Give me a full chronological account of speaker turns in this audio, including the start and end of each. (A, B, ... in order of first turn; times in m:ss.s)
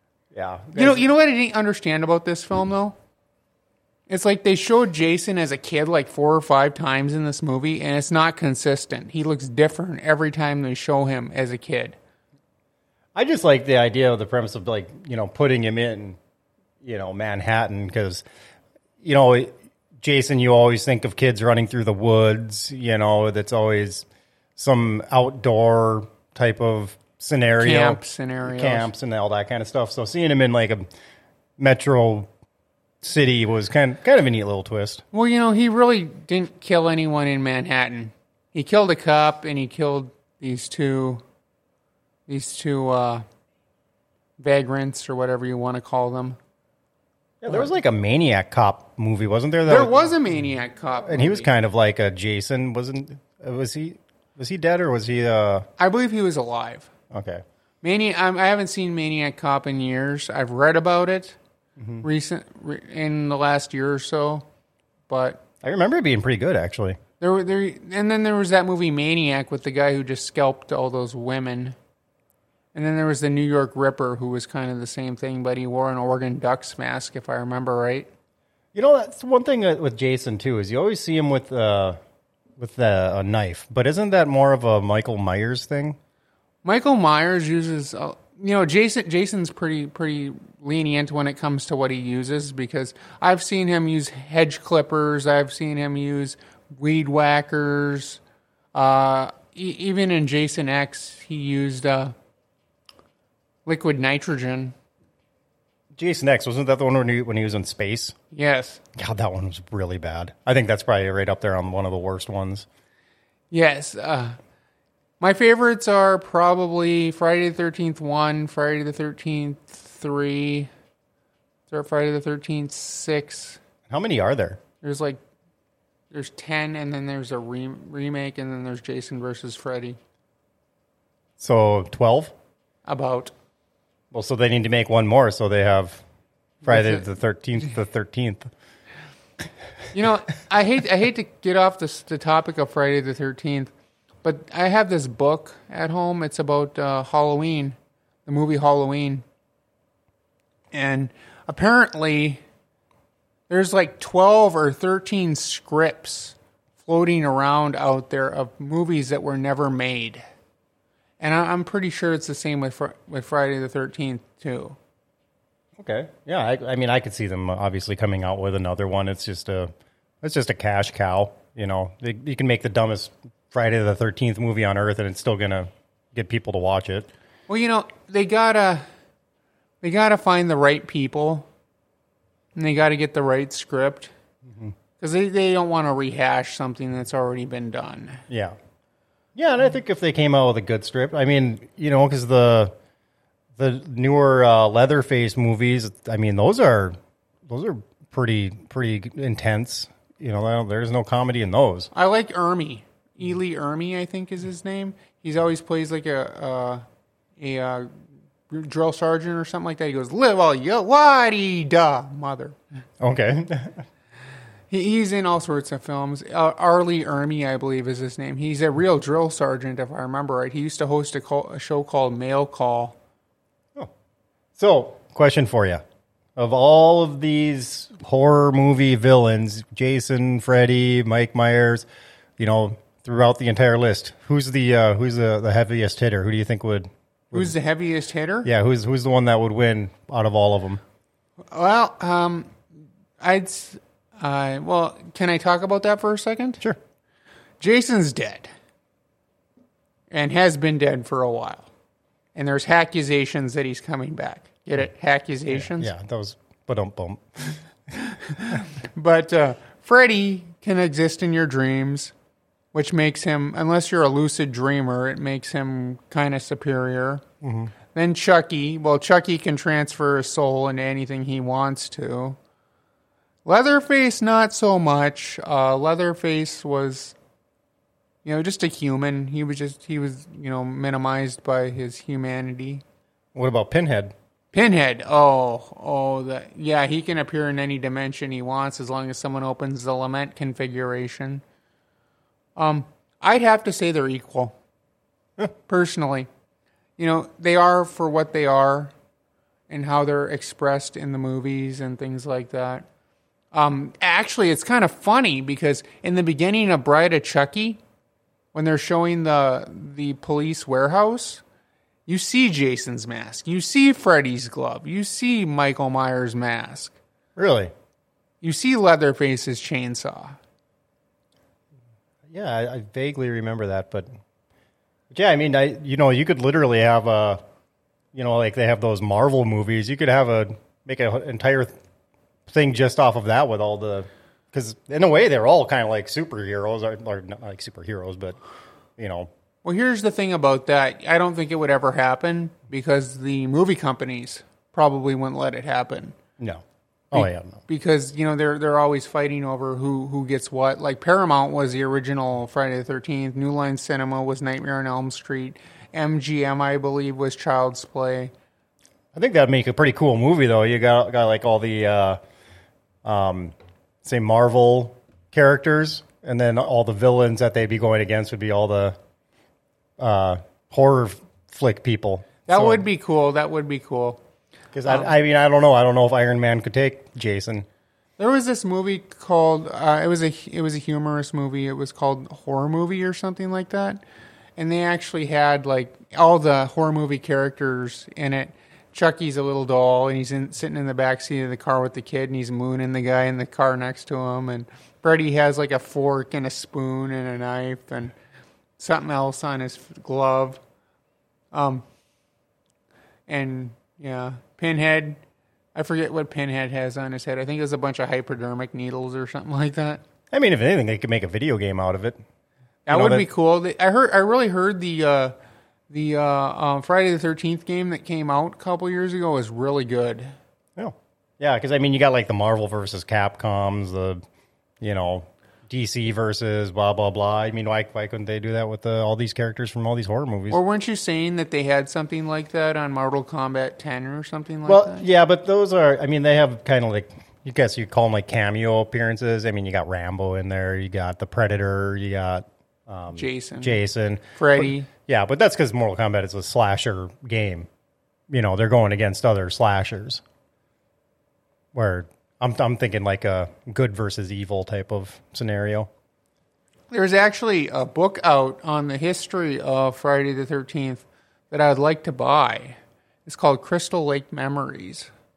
0:00.3-0:01.0 A
0:00.7-0:02.9 B
0:04.1-0:12.0 B
0:13.1-0:16.2 A
0:16.8-0:18.2 A
0:19.0-0:30.8 A
0:27.6-0:28.9 B
0:31.6-0:32.3 A
0:33.0-0:35.0 A
0:35.1-0:41.2 B
0:42.3-0:43.2 B
0:44.4-0:46.4 B
0:47.4-0:50.0 A
0:49.7-0:51.5 B
0:51.0-0:55.7 A
0:55.8-0:56.9 B
0:57.1-0:57.4 A
0:57.8-1:01.4 B
1:01.8-1:02.0 A
1:02.0-1:04.4 B
1:05.1-1:05.4 B
1:05.6-1:07.0 A
1:07.2-1:11.8 B
1:12.7-1:18.1 B
1:18.7-1:22.0 A
1:22.6-1:26.0 A
1:26.6-1:38.2 B
1:38.7-1:42.1 B
1:43.6-1:44.7 B
1:46.0-1:48.2 A
1:48.3-1:48.8 B
1:49.0-1:52.6 A
1:53.5-1:54.4 B
1:55.2-2:00.7 B
2:01.7-2:03.6 B
2:03.9-2:04.6 A
2:04.8-2:05.2 B
2:06.1-2:10.0 B
2:11.4-2:12.3 A
2:12.8-2:13.3 B
2:14.1-2:16.0 A
2:16.6-2:18.5 A
2:16.6-2:17.0 B
2:19.9-2:23.7 B
2:24.2-2:27.7 B
2:28.2-2:29.2 B
2:30.7-2:32.4 B
2:33.5-2:40.2 B
2:41.2-2:44.8 B
2:45.8-2:49.7 A
2:50.2-2:57.1 A
2:57.5-2:58.8 B
2:59.8-3:01.4 B
3:02.5-3:04.1 B
3:04.5-3:04.7 A
3:05.0-3:08.2 B
3:08.3-3:08.5 A
3:09.3-3:12.7 A
3:13.6-3:21.9 A
3:21.9-3:26.8 B
3:27.4-3:27.9 B
3:28.5-3:32.6 B
3:33.0-3:33.8 A
3:34.7-3:43.0 B
3:44.6-3:45.8 A
3:46.4-3:51.8 A
3:52.4-3:57.5 A
3:57.3-3:58.5 B
3:58.4-4:00.8 A
4:01.5-4:02.6 B
4:03.2-4:06.6 B
4:07.6-4:08.5 B
4:10.1-4:11.7 B
4:12.3-4:15.9 B
4:15.5-4:17.6 A
4:17.9-4:22.1 B
4:22.7-4:27.2 B
4:27.4-4:27.7 A
4:27.9-4:32.4 B
4:33.4-4:37.2 B
4:38.2-4:42.8 B
4:43.3-4:44.1 A
4:44.5-4:51.4 B
4:52.6-4:54.5 B
4:55.7-4:56.3 B
4:57.0-4:58.9 B
4:59.7-5:02.8 B
5:03.5-5:07.8 B
5:08.5-5:11.4 B
5:12.1-5:17.0 B
5:17.4-5:17.7 A
5:18.4-5:20.4 B
5:22.3-5:24.1 A
5:25.1-5:27.4 A
5:28.1-5:31.7 A
5:32.5-5:38.4 A
5:39.0-5:39.3 A
5:39.6-5:46.1 B
5:47.1-5:47.6 A
5:47.1-5:58.3 B
5:59.1-6:02.2 A
6:03.0-6:09.0 A
6:10.0-6:12.8 A
6:12.5-6:14.2 B
6:14.7-6:17.6 A
6:14.8-6:15.1 B
6:18.2-6:24.0 B
6:24.6-6:38.1 B
6:38.8-6:40.6 B
6:41.5-6:41.8 B
6:43.3-6:45.2 B
6:45.7-6:50.0 B
6:50.3-6:52.2 A
6:52.9-6:55.3 B
6:52.9-6:53.3 A
6:55.9-7:00.3 B
7:00.8-7:04.2 A
7:04.8-7:10.6 A
7:10.5-7:15.0 B
7:14.7-7:27.7 A
7:23.1-7:23.8 B
7:24.3-7:24.9 B
7:28.3-7:30.2 A
7:31.7-7:35.9 A
7:36.9-7:45.1 B